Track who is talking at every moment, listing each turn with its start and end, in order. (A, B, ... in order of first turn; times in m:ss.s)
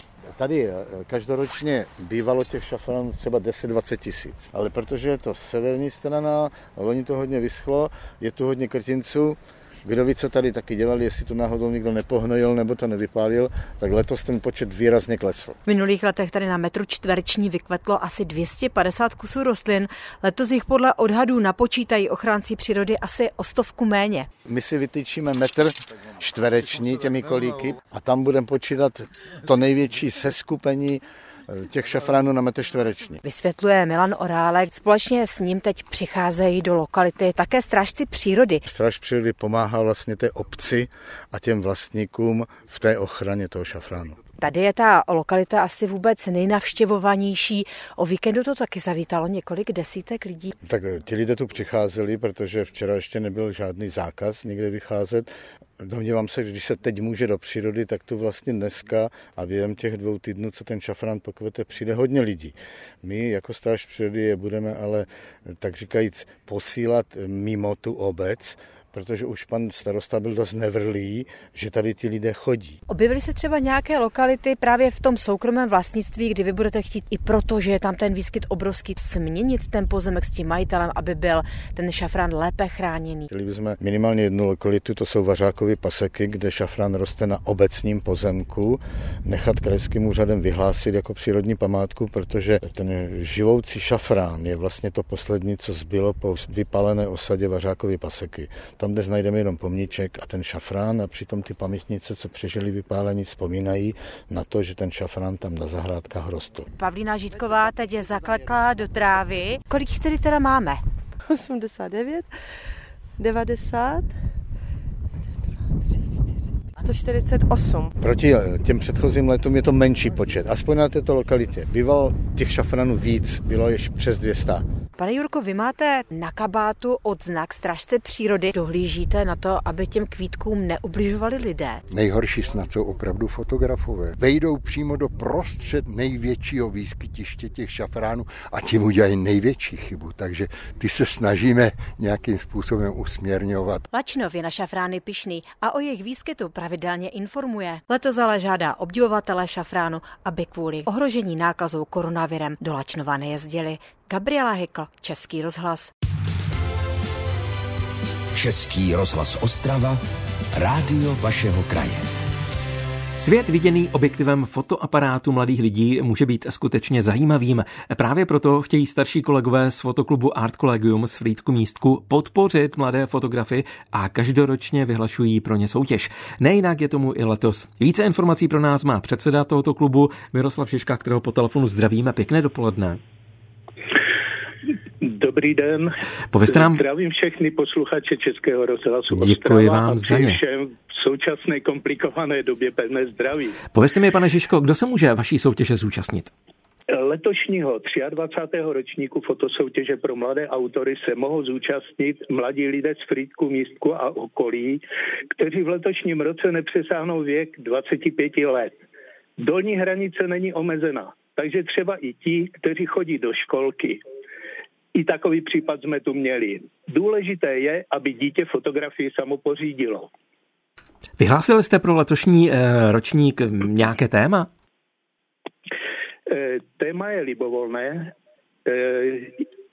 0:00.3-0:15.6 A
0:15.6-0:24.3 B
0:24.4-0:33.2 A
0:33.2-0:38.6 B
0:38.6-0:44.2 A
0:44.4-0:50.5 B
0:50.6-0:55.3 A
0:55.8-1:12.8 A
1:12.9-1:23.3 B
1:23.3-1:46.6 A
1:46.8-1:50.8 B
1:51.3-1:52.4 C
1:53.2-1:54.1 C
1:55.3-1:57.9 C
1:58.0-2:04.6 A
2:05.0-2:11.8 B
2:11.9-2:23.8 D
2:23.9-2:35.9 B
2:38.4-2:40.0 E
2:38.5-2:39.9 B
2:40.6-2:41.8 E
2:43.2-3:03.0 F
3:05.0-3:05.9 G
3:06.3-3:06.8 F
3:06.5-3:13.5 G
3:09.1-3:10.4 F
3:13.7-3:16.3 F
3:16.9-3:24.8 G
3:25.3-3:28.8 G
3:29.4-3:34.0 G
3:34.9-3:40.1 G
3:41.2-3:44.5 F
3:46.3-3:48.1 G
3:48.6-3:49.4 G